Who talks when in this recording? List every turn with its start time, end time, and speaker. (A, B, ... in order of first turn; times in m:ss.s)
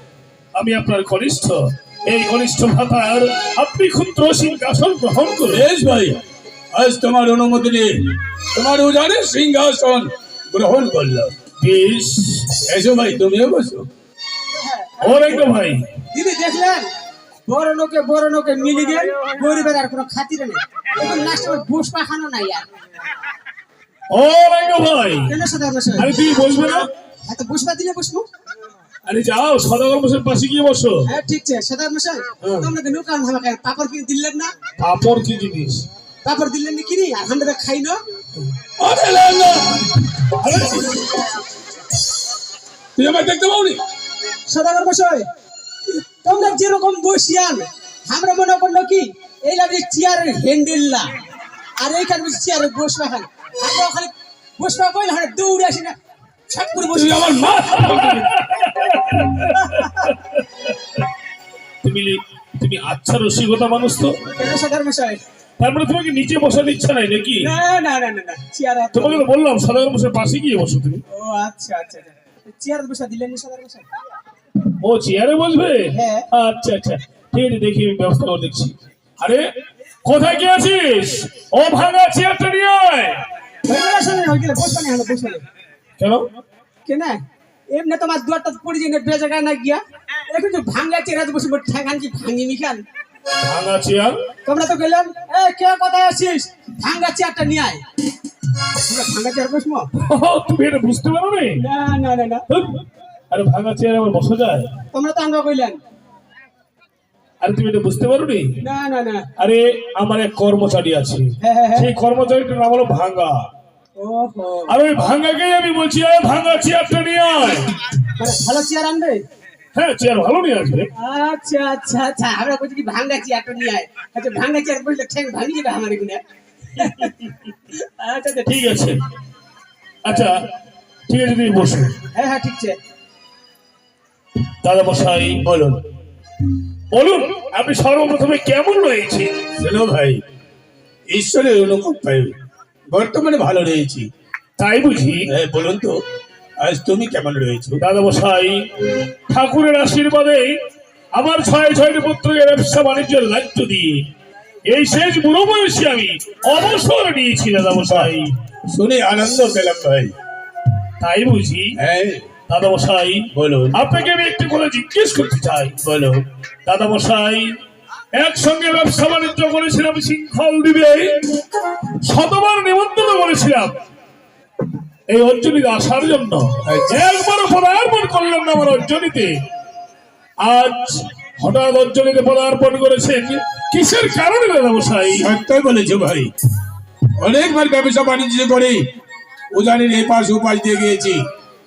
0:00.5-0:05.6 A
0:05.5-0:06.2 B
0:06.7-0:11.3 B
0:11.6-0:12.5 A
0:12.6-0:13.9 B
0:14.5-0:15.5 C
0:15.0-0:15.8 A
0:16.1-0:16.9 C
0:17.4-0:22.7 C
0:24.1-0:25.4 A
0:25.3-0:28.2 C
0:26.0-0:26.9 A
0:29.0-0:31.1 A
0:31.0-0:34.5 C
0:32.4-0:32.7 A
0:34.8-0:35.8 A
0:36.2-0:38.0 C
0:38.8-0:40.0 B
0:40.4-0:40.9 A
0:43.0-0:43.8 B
0:44.4-0:45.2 C
0:46.2-0:51.1 C
0:51.8-0:56.0 C
0:56.5-0:58.3 C
0:56.9-1:00.4 A
0:59.5-1:00.1 C
1:01.8-1:04.2 A
1:04.2-1:05.2 C
1:05.6-1:07.5 A
1:07.4-1:09.2 C
1:08.9-1:11.0 A
1:11.1-1:13.9 C
1:14.8-1:19.4 A
1:15.9-1:16.3 C
1:20.0-1:23.2 A
1:23.6-1:25.4 C
1:26.0-1:26.2 A
1:26.8-1:27.2 C
1:27.7-1:32.8 C
1:33.4-1:34.2 A
1:34.4-1:37.8 C
1:38.8-1:39.9 C
1:40.0-1:41.6 A
1:41.6-1:42.4 C
1:42.5-1:44.7 A
1:44.9-1:45.8 C
1:47.4-1:48.6 A
1:48.6-1:49.3 C
1:49.4-1:53.5 A
1:51.4-1:51.9 C
1:54.0-1:54.8 C
1:54.7-1:57.7 A
1:58.2-1:59.2 C
1:59.7-2:00.9 A
2:01.0-2:06.2 C
2:06.8-2:08.8 C
2:08.4-2:09.0 A
2:10.0-2:10.4 A
2:11.1-2:12.0 A
2:12.1-2:12.8 C
2:14.6-2:15.4 A
2:15.4-2:15.8 B
2:16.9-2:19.4 A
2:19.6-2:20.2 B
2:21.1-2:22.3 B
2:22.9-2:24.1 B
2:24.6-2:25.3 A
2:25.2-2:26.0 B
2:26.6-2:27.8 B
2:27.8-2:28.7 A
2:29.3-2:30.6 A
2:31.1-2:34.1 A
2:34.7-2:38.3 A
2:37.8-2:38.1 B
2:38.7-2:40.1 B
2:41.0-2:41.8 A
2:41.8-2:42.3 B
2:42.5-2:45.8 A
2:43.3-2:43.8 B
2:45.8-2:46.2 B
2:46.6-2:47.5 A
2:48.1-2:51.4 A
2:52.0-2:53.8 A
2:55.1-2:59.4 A
2:56.6-2:57.0 B
3:00.4-3:05.3 A
3:05.2-3:06.3 B
3:07.2-3:08.8 B
3:09.5-3:11.2 B